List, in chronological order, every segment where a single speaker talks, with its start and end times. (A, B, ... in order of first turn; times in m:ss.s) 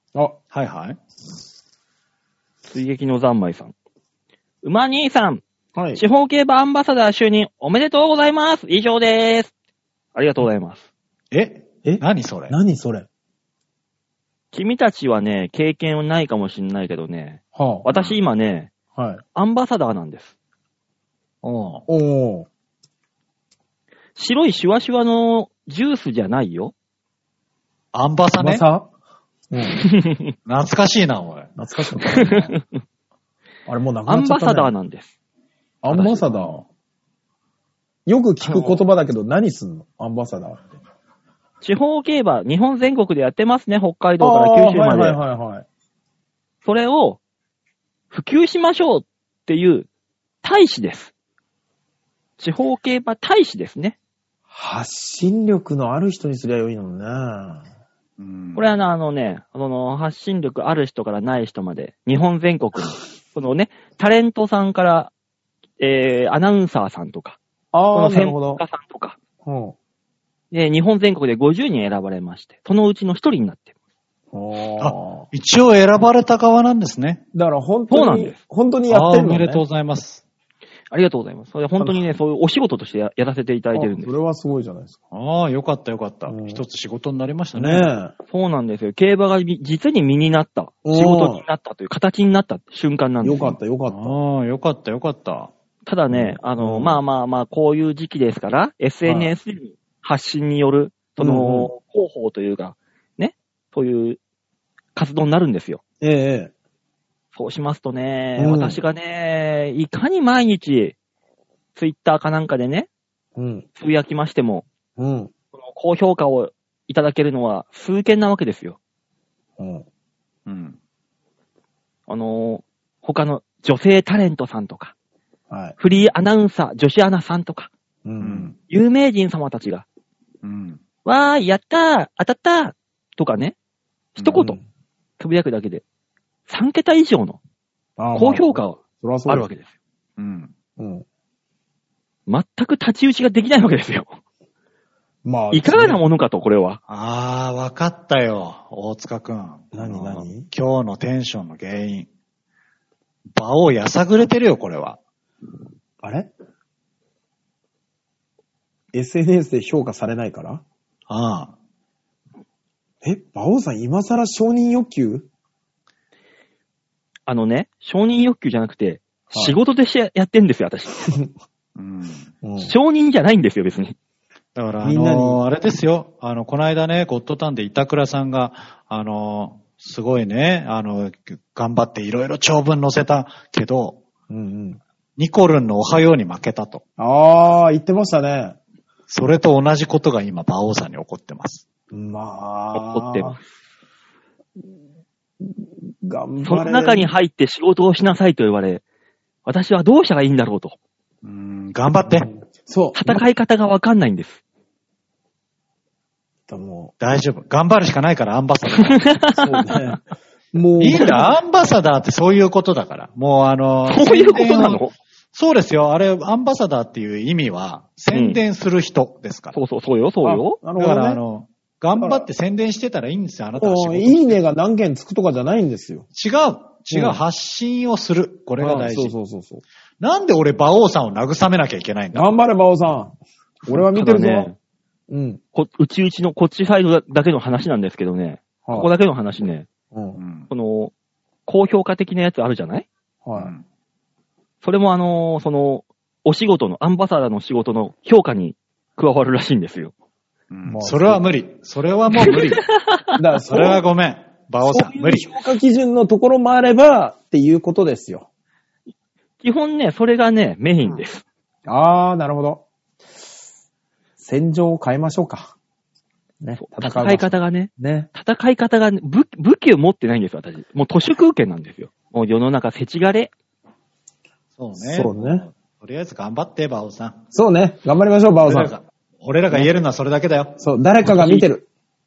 0:00.5-0:01.0 A
0:02.7-0:03.7 B
0:04.6-0:05.4 B
0:05.8-0:06.0 C
0:06.0-0:09.5 B
0:10.1-0:10.9 B
0:11.3-0:12.6 A
0:11.8-0:13.1 C
0:14.5-0:18.7 B
0:17.6-0:17.9 C
0:17.9-0:18.2 A
0:19.0-0:19.2 C
0:19.4-0:20.3 B
0:21.4-0:21.8 A
0:21.9-0:22.5 C
0:24.2-0:26.7 B
0:27.9-0:28.6 A
0:28.4-0:28.9 C
0:29.5-0:29.8 C
0:29.8-0:30.3 B
0:30.5-0:31.5 A
0:31.6-0:32.6 C
0:32.1-0:32.6 B
0:33.7-0:34.7 C
0:34.1-0:35.1 B
0:35.8-0:36.6 C
0:35.9-0:36.6 B
0:38.1-0:40.7 C
0:38.4-0:38.8 B
0:41.6-0:45.2 B
0:44.2-0:45.7 C
0:46.6-0:47.2 B
0:48.1-0:49.9 B
0:50.4-0:51.1 B
0:52.4-0:54.0 B
0:54.5-0:57.6 C
0:58.2-0:58.7 A
0:58.6-1:05.1 B
1:05.8-1:07.4 B
1:07.7-1:08.6 C
1:07.9-1:09.2 B
1:09.4-1:09.8 C
1:10.5-1:13.7 B
1:14.3-1:15.3 C
1:14.8-1:17.2 A
1:17.3-1:19.6 C
1:17.9-1:18.4 B
1:18.9-1:20.2 A
1:20.9-1:24.1 B
1:21.8-1:22.2 C
1:23.7-1:25.0 C
1:25.1-1:27.9 A
1:26.3-1:26.6 C
1:27.6-1:28.1 C
1:28.3-1:33.6 B
1:30.8-1:31.4 C
1:33.2-1:34.2 C
1:33.9-1:35.5 A
1:35.9-1:44.2 B
1:36.1-1:37.0 C
1:39.0-1:39.3 C
1:41.2-1:41.7 C
1:45.0-1:45.8 B
1:46.0-1:46.5 C
1:47.3-1:51.0 B
1:48.4-1:48.8 C
1:51.8-1:52.9 B
1:53.4-1:53.7 C
1:53.8-1:54.7 B
1:55.0-1:55.3 C
1:55.6-1:58.8 B
1:59.6-1:59.8 C
2:00.5-2:00.8 A
2:02.1-2:04.9 B
2:05.5-2:05.8 C
2:05.8-2:07.7 B
2:08.0-2:08.5 C
2:08.2-2:08.6 A
2:08.7-2:09.8 B
2:10.4-2:10.8 A
2:11.0-2:13.6 B
2:14.2-2:14.6 B
2:14.3-2:14.6 C
2:15.2-2:15.8 B
2:16.5-2:17.4 B
2:18.0-2:19.5 C
2:18.2-2:19.7 B
2:20.2-2:20.5 A
2:20.8-2:21.0 C
2:22.3-2:24.2 B
2:25.2-2:26.0 C
2:25.5-2:26.8 B
2:26.9-2:32.1 A
2:29.7-2:30.5 C
2:33.3-2:35.0 A
2:36.0-2:36.3 C
2:38.9-2:40.6 C
2:41.1-2:41.5 A
2:43.0-2:45.3 C
2:47.3-2:51.0 B
2:51.0-2:51.3 C
2:51.8-2:52.3 A
2:52.4-2:52.8 C
2:52.6-2:54.0 B
2:54.6-3:04.0 A
2:54.8-2:55.4 C
3:04.3-3:04.8 C
3:05.2-3:06.8 A
3:07.0-3:08.6 C
3:09.1-3:11.6 A
3:11.9-3:13.4 C
3:12.7-3:13.4 B
3:15.4-3:17.1 C
3:16.4-3:18.8 B
3:19.4-3:20.8 B
3:21.2-3:22.3 A
3:22.1-3:23.2 C
3:23.0-3:24.4 B
3:26.5-3:27.0 C
3:27.0-3:29.1 A
3:28.8-3:29.6 B
3:29.3-3:30.0 C
3:30.5-3:31.3 C
3:30.8-3:39.6 A
3:33.9-3:34.9 B
3:38.1-3:38.4 B
3:39.5-3:40.6 B
3:40.2-3:41.2 C
3:40.8-3:44.4 A
3:42.0-3:42.3 C
3:43.6-3:46.1 C
3:46.2-3:49.2 A
3:46.9-3:47.2 C
3:48.6-3:49.6 C
3:50.0-3:52.3 A
3:52.1-3:54.5 C
3:53.8-3:54.6 B
3:55.1-3:55.4 C
3:55.5-3:59.7 B
3:58.6-3:58.9 C
3:59.9-4:00.2 C
4:00.2-4:00.5 A
4:00.5-4:00.9 B
4:01.5-4:02.9 B
4:03.2-4:03.5 C
4:03.4-4:03.6 A
4:04.6-4:09.9 B
4:10.5-4:12.6 A
4:10.6-4:11.3 C
4:12.3-4:13.1 B
4:13.2-4:13.8 C
4:13.5-4:15.3 A
4:14.6-4:18.3 C
4:19.4-4:21.2 B
4:21.7-4:22.6 C
4:24.2-4:25.5 C
4:26.4-4:28.1 C
4:26.6-4:33.3 B
4:34.6-4:37.2 A
4:34.8-4:35.4 C
4:37.3-4:38.7 C
4:38.4-4:40.6 A
4:40.6-4:41.6 C
4:41.0-4:41.5 B